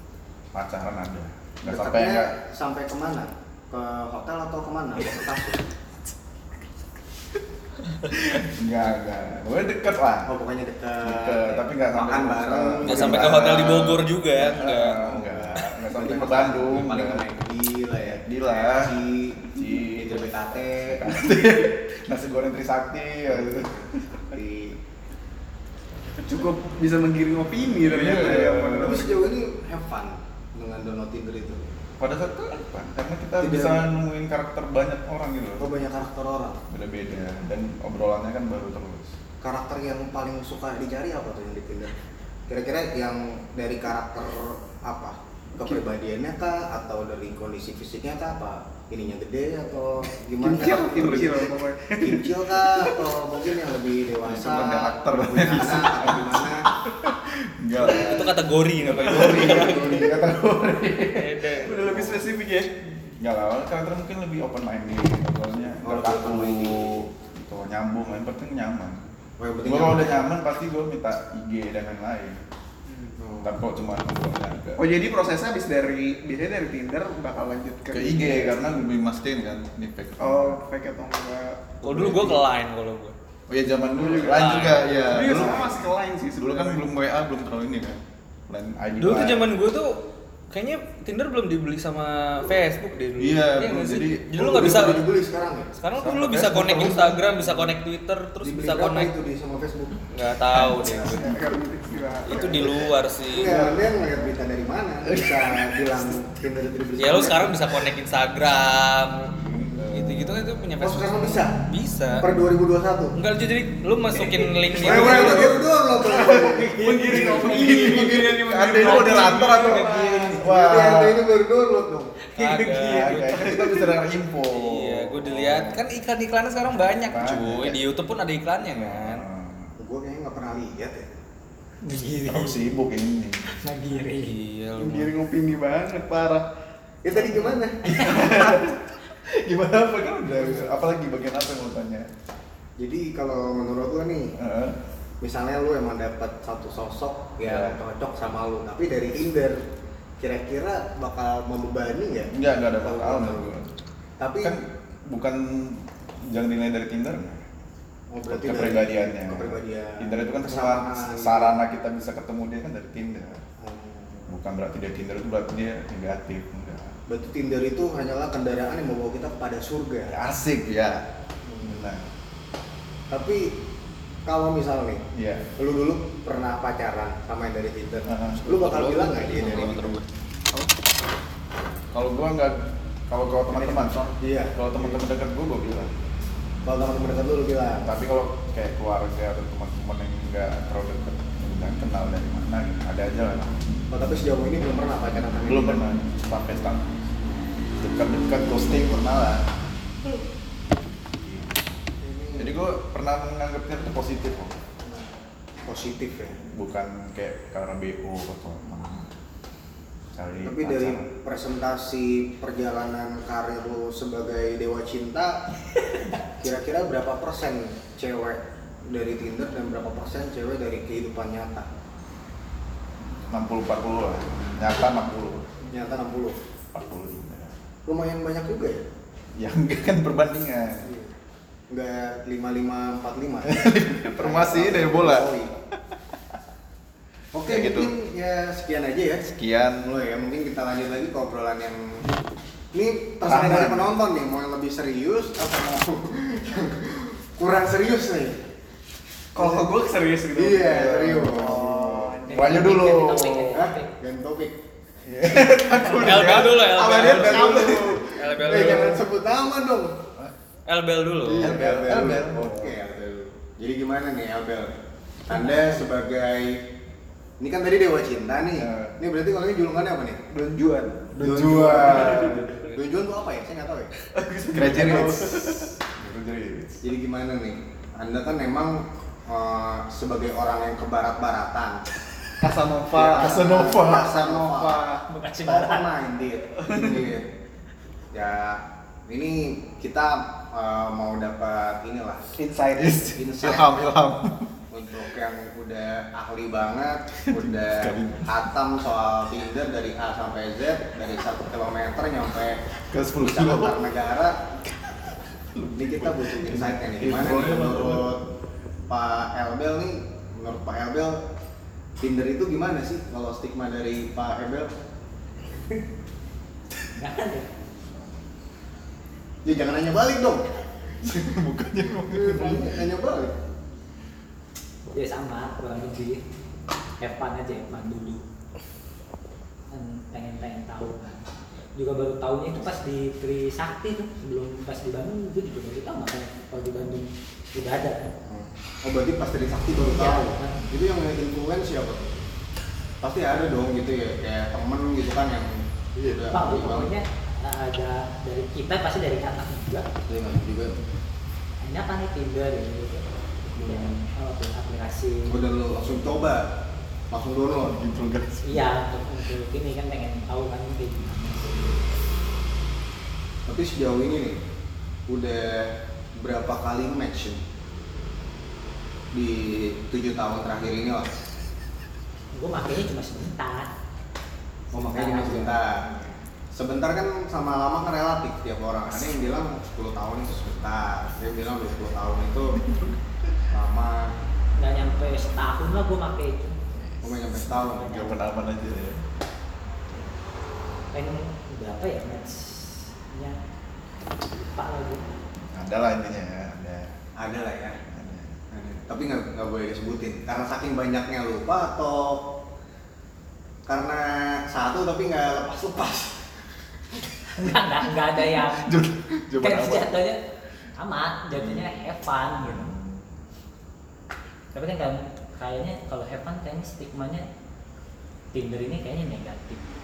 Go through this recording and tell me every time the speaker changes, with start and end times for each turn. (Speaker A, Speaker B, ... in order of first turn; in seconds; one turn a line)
Speaker A: 0.5-2.3
Speaker B: 1.6-5.6
Speaker A: 8.2-10.3
Speaker B: 10.2-13.6
Speaker A: 11.0-17.2
Speaker C: 12.8-15.0
Speaker B: 14.8-21.1
Speaker A: 18.0-24.2
Speaker B: 23.3-24.8
Speaker D: 26.2-29.3
Speaker A: 27.7-29.0
Speaker B: 28.7-31.7
Speaker A: 32.0-35.7
Speaker B: 33.4-33.9
Speaker B: 35.6-36.6
Speaker A: 36.7-39.1
Speaker B: 39.4-41.9
Speaker B: 42.5-51.5
Speaker D: 50.4-53.1
Speaker A: 50.8-51.3
Speaker B: 52.0-56.7
Speaker A: 54.2-62.3
Speaker C: 57.8-60.1
Speaker D: 59.2-59.9
Speaker C: 61.1-61.8
Speaker D: 61.5-62.7
Speaker A: 63.2-69.0
Speaker B: 65.8-67.0
Speaker B: 69.4-70.2
Speaker A: 69.6-72.4
Speaker D: 72.9-73.1
Speaker B: 73.2-73.6
Speaker A: 73.4-74.8
Speaker D: 74.8-78.8
Speaker A: 77.9-80.6
Speaker D: 80.2-82.3
Speaker C: 81.8-83.2
Speaker A: 83.5-89.5
Speaker D: 84.0-86.8
Speaker C: 84.2-84.9
Speaker B: 85.1-85.8
Speaker C: 89.0-90.0
Speaker C: 90.5-95.1
Speaker A: 93.2-94.9
Speaker B: 94.4-95.7
Speaker C: 95.8-99.1
Speaker A: 96.0-97.7
Speaker B: 98.4-100.0
Speaker C: 100.1-101.3
Speaker A: 100.5-101.4
Speaker D: 100.8-102.9
Speaker C: 102.2-103.5
Speaker B: 103.3-107.6
Speaker A: 103.4-103.9
Speaker A: 105.0-106.0
Speaker C: 107.0-109.3
Speaker A: 109.4-110.2
Speaker C: 109.9-112.2
Speaker B: 110.8-111.6
Speaker B: 112.2-113.1
Speaker C: 113.2-115.5
Speaker D: 114.2-120.4
Speaker B: 114.8-118.3
Speaker A: 115.0-115.4
Speaker A: 116.9-121.2
Speaker C: 116.9-118.3
Speaker C: 118.8-120.1
Speaker B: 120.3-122.1
Speaker C: 122.3-123.7
Speaker D: 122.4-123.9
Speaker A: 122.7-125.8
Speaker C: 124.5-129.2
Speaker A: 127.0-127.8
Speaker B: 127.2-127.8
Speaker A: 128.7-129.7
Speaker B: 129.8-131.2
Speaker E: 131.8-132.6
Speaker A: 132.2-133.6
Speaker E: 133.6-134.4
Speaker C: 134.0-135.1
Speaker D: 134.8-136.4
Speaker B: 137.0-138.2
Speaker A: 137.8-142.1
Speaker D: 138.1-138.7
Speaker B: 142.8-144.3
Speaker A: 144.3-144.8
Speaker B: 145.2-149.6
Speaker A: 147.4-147.8
Speaker B: 150.2-153.5
Speaker A: 152.3-153.7
Speaker B: 154.2-154.6
Speaker A: 154.4-157.4
Speaker B: 158.1-161.6
Speaker A: 158.3-163.4
Speaker B: 163.6-164.3
Speaker A: 164.3-167.0
Speaker B: 167.1-170.2
Speaker A: 170.1-171.0
Speaker B: 171.4-171.9
Speaker A: 171.6-172.1
Speaker B: 173.1-173.6
Speaker B: 174.2-175.0
Speaker A: 175.1-175.5
Speaker B: 175.6-180.0
Speaker A: 178.1-178.4
Speaker C: 178.4-180.0
Speaker A: 181.9-185.9
Speaker B: 183.5-185.0
Speaker B: 186.6-187.9
Speaker A: 187.8-193.6
Speaker B: 193.9-195.8
Speaker A: 195.4-197.0
Speaker A: 197.8-199.4
Speaker A: 201.2-201.7
Speaker B: 202.0-202.6
Speaker A: 202.4-204.6
Speaker B: 205.7-206.4
Speaker A: 206.3-209.1
Speaker A: 210.1-211.1
Speaker B: 210.4-215.4
Speaker B: 216.4-221.7
Speaker A: 223.2-225.5
Speaker B: 225.6-226.4
Speaker A: 226.7-227.6
Speaker B: 227.8-228.8
Speaker A: 229.3-230.9
Speaker B: 230.8-231.2
Speaker B: 231.7-233.7
Speaker A: 233.4-235.3
Speaker B: 234.2-235.5
Speaker B: 237.3-239.3
Speaker A: 237.4-237.9
Speaker A: 239.3-239.9
Speaker B: 239.8-242.1
Speaker B: 242.7-248.4
Speaker A: 243.2-243.9
Speaker D: 249.3-253.0
Speaker B: 249.4-249.6
Speaker B: 250.3-251.6
Speaker A: 250.7-253.6
Speaker E: 252.3-253.9
Speaker B: 253.5-254.6
Speaker A: 255.0-258.0
Speaker D: 255.3-258.0
Speaker C: 256.0-259.0
Speaker B: 257.0-260.0
Speaker A: 258.5-258.8
Speaker C: 260.7-261.6
Speaker B: 261.2-266.6
Speaker A: 261.3-262.7
Speaker E: 265.3-265.8
Speaker B: 267.4-270.2
Speaker A: 268.6-268.9
Speaker D: 270.3-272.4
Speaker A: 271.1-272.5
Speaker B: 271.1-273.9
Speaker D: 274.1-275.7
Speaker A: 274.5-276.8
Speaker B: 274.6-275.2
Speaker B: 276.8-281.8
Speaker D: 282.4-285.0
Speaker B: 282.9-284.9
Speaker A: 283.1-284.3
Speaker E: 285.1-285.9
Speaker B: 285.4-287.3
Speaker D: 286.6-287.1
Speaker B: 288.1-292.3
Speaker D: 292.4-293.1
Speaker A: 292.8-294.5
Speaker B: 293.1-293.9
Speaker B: 294.7-302.6
Speaker A: 297.3-298.5
Speaker A: 302.9-303.8
Speaker B: 303.2-304.5
Speaker A: 305.5-308.2
Speaker B: 305.7-308.2
Speaker B: 308.9-311.2
Speaker B: 312.0-314.7
Speaker E: 316.9-317.5
Speaker B: 319.4-320.5
Speaker A: 321.0-322.8
Speaker B: 322.1-323.4
Speaker E: 324.9-326.2
Speaker E: 327.0-328.2
Speaker E: 329.7-338.1
Speaker B: 338.2-342.3
Speaker E: 339.8-340.7
Speaker B: 343.0-346.9
Speaker E: 346.2-349.9
Speaker B: 350.1-350.8
Speaker E: 351.6-355.4
Speaker B: 353.5-354.0
Speaker B: 355.3-356.5
Speaker B: 357.1-357.8
Speaker A: 357.6-358.7
Speaker E: 358.4-361.9
Speaker B: 363.5-364.4
Speaker B: 365.1-367.4
Speaker B: 369.1-371.1
Speaker E: 372.3-373.7
Speaker E: 374.7-375.9
Speaker B: 374.7-375.8
Speaker B: 376.5-382.6
Speaker B: 383.5-384.1
Speaker E: 384.6-386.6
Speaker A: 386.8-389.0
Speaker B: 387.0-388.1
Speaker E: 387.9-388.1
Speaker E: 390.9-393.4
Speaker E: 394.2-395.1
Speaker A: 395.5-396.9
Speaker B: 397.2-397.8
Speaker A: 397.9-398.4
Speaker B: 398.5-402.2
Speaker B: 403.7-406.2
Speaker E: 407.4-408.8
Speaker A: 408.3-410.0
Speaker E: 409.4-410.2
Speaker E: 410.8-412.7
Speaker A: 412.4-413.1
Speaker E: 414.5-417.2
Speaker E: 418.3-419.7